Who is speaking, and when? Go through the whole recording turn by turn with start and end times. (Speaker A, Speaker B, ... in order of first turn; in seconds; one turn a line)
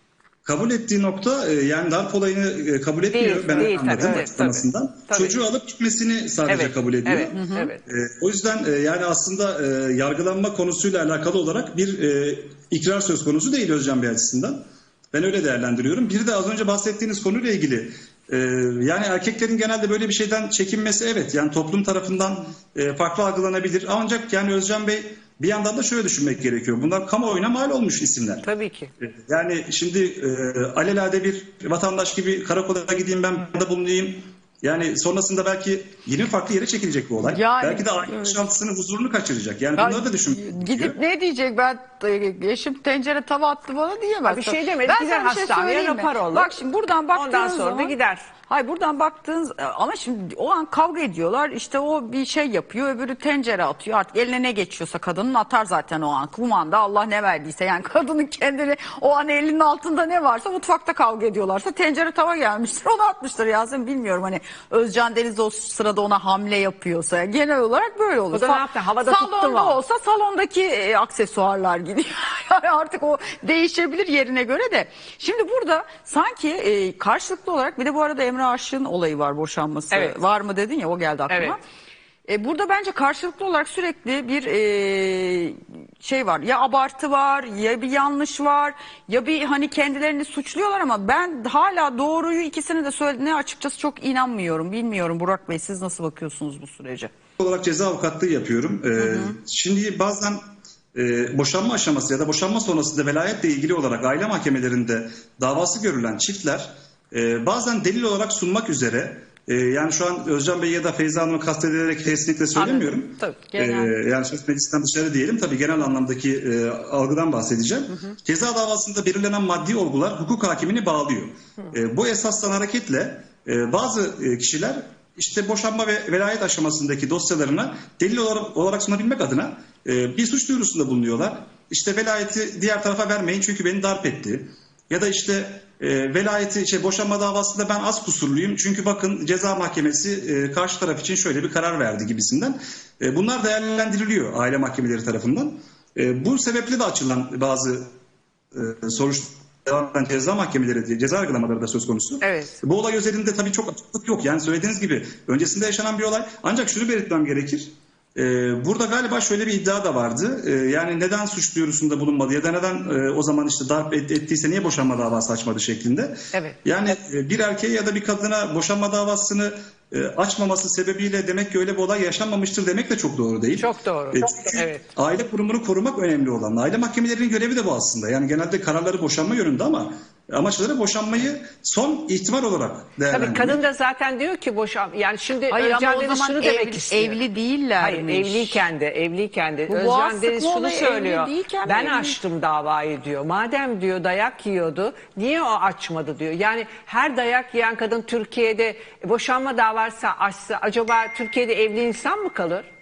Speaker A: 0.5-28.5
Speaker B: 3.1-5.4
Speaker C: 3.6-4.3
Speaker B: 6.5-7.8
Speaker C: 7.3-7.7
Speaker B: 28.4-28.9
Speaker A: 29.0-41.0
Speaker C: 37.2-38.4
Speaker C: 39.8-48.0
Speaker B: 44.3-46.6
Speaker B: 47.1-48.3
Speaker C: 48.5-81.6
Speaker B: 68.3-69.8
Speaker B: 81.3-81.6
Speaker C: 82.3-97.1
Speaker A: 97.4-147.9
Speaker C: 99.0-99.4
Speaker B: 112.6-113.4
Speaker C: 113.5-113.9
Speaker A: 148.5-183.6
Speaker B: 152.2-152.6
Speaker B: 166.3-166.6
Speaker B: 173.6-174.9
Speaker B: 183.1-187.2
Speaker C: 185.5-188.7
Speaker B: 187.8-202.7
Speaker C: 189.7-192.2